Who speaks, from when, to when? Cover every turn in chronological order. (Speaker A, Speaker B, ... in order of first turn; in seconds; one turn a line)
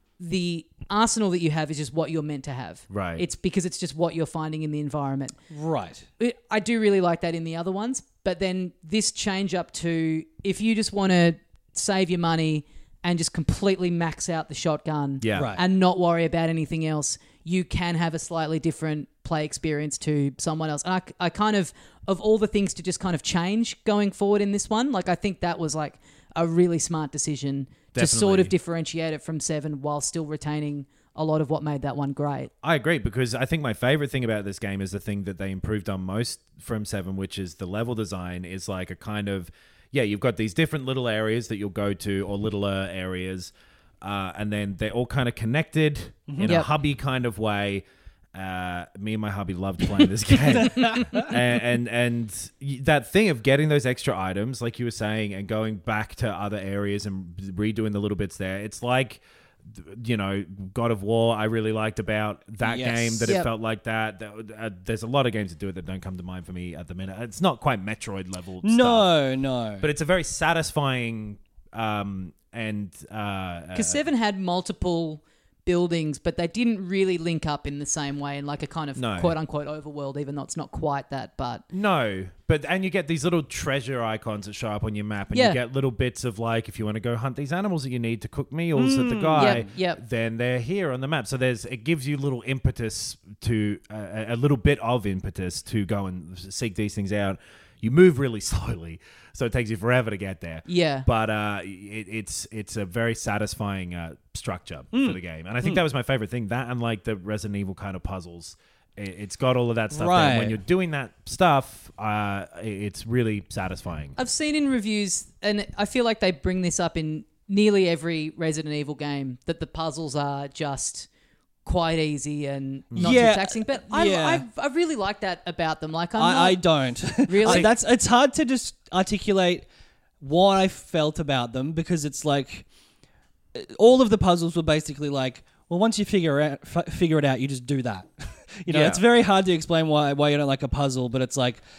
Speaker A: 0.2-5.4
Speaker B: 2.9-3.2
Speaker C: 5.5-6.0
Speaker A: 6.2-32.5
Speaker B: 15.2-15.6
Speaker C: 15.3-15.6
Speaker B: 27.9-28.5
Speaker B: 32.6-69.1
Speaker C: 46.3-46.6
Speaker A: 46.4-46.7
Speaker C: 50.4-51.4
Speaker C: 62.6-63.4
Speaker C: 68.6-69.9
Speaker B: 69.8-74.0
Speaker A: 73.7-81.6
Speaker B: 79.0-79.3
Speaker B: 81.7-114.2
Speaker A: 85.3-85.6
Speaker C: 88.7-89.7
Speaker A: 89.4-90.0
Speaker A: 100.7-101.1
Speaker C: 104.9-105.8
Speaker C: 109.9-110.6
Speaker A: 114.2-121.1
Speaker A: 121.6-126.6
Speaker B: 122.9-123.2
Speaker C: 123.0-124.4
Speaker C: 126.2-129.7
Speaker A: 127.2-127.7
Speaker C: 130.2-132.6
Speaker C: 133.5-141.6
Speaker B: 138.7-139.0